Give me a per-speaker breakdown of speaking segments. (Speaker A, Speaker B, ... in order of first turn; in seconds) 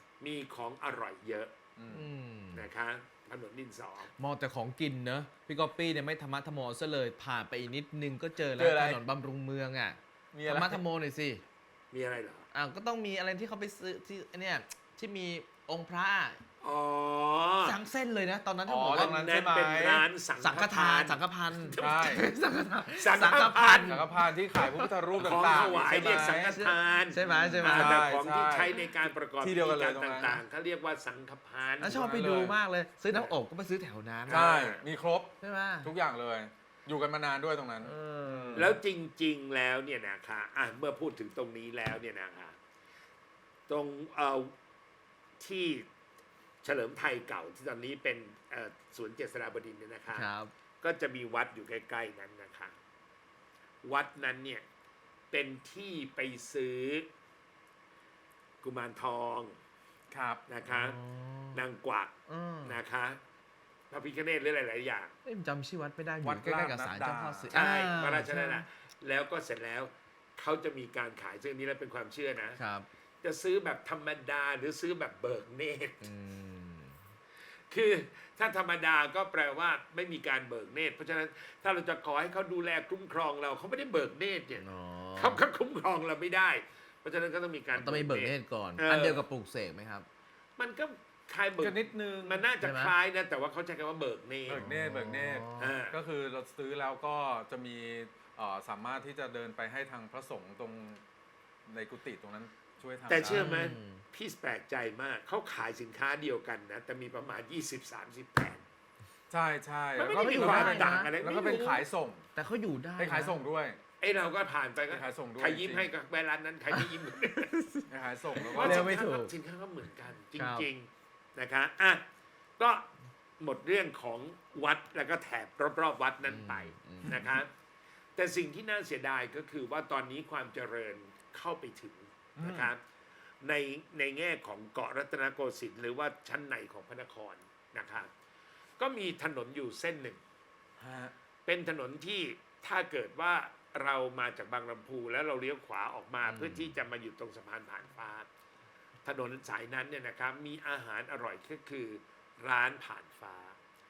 Speaker A: 0.2-1.5, 2.5-4.1, 11.9-12.5, 16.6-17.8, 18.9-22.2, 23.0-24.0, 25.2-32.0, 34.3-34.8, 38.5-42.6, 43.7-44.5, 45.4-45.9, 46.6-50.3, 50.8-52.8, 53.8-54.6, 55.3-57.1, 58.6-59.6, 60.5-61.0, 61.5-62.1, 62.6-63.2, 63.9-65.1, 67.5-72.6, 73.2-76.0, 77.7-84.6, 85.2-89.2, 90.6-94.7, 95.6-96.0, 103.1-108.6, 110.0-111.8, 114.0-117.5, 118.4-122.0, 122.6-122.9, 123.4-127.5, 128.2-132.8, 133.4-138.1, 138.8-140.2, 141.5-148.3, 149.1-153.6
Speaker B: 1.8-2.1, 8.6-9.0, 10.3-10.8, 18.7-20.1, 21.8-22.2, 23.9-26.6, 27.2-28.8, 29.4-30.4, 31.8-32.6, 34.3-38.8, 60.1-60.4, 66.2-67.6, 91.6-92.4, 94.5-101.0, 101.7-103.5, 109.3-112.2, 113.0-113.8, 114.9-115.9, 117.9-119.0, 132.4-132.7, 140.8-141.1
Speaker C: 1.9-2.7, 4.2-11.4, 12.5-16.4, 17.6-19.4, 20.4-24.9, 26.5-28.0, 31.8-34.5, 35.4-35.9, 37.8-38.8, 50.1-50.5, 60.7-61.6, 62.3-62.8, 65.2-68.6, 72.6-72.9, 76.0-77.0, 84.6-85.4, 87.8-90.1, 92.6-92.9, 94.5-95.8, 103.2-104.0, 110.1-111.1, 112.3-113.4, 116.7-119.3, 120.4-120.7, 126.3-127.2, 146.2-146.7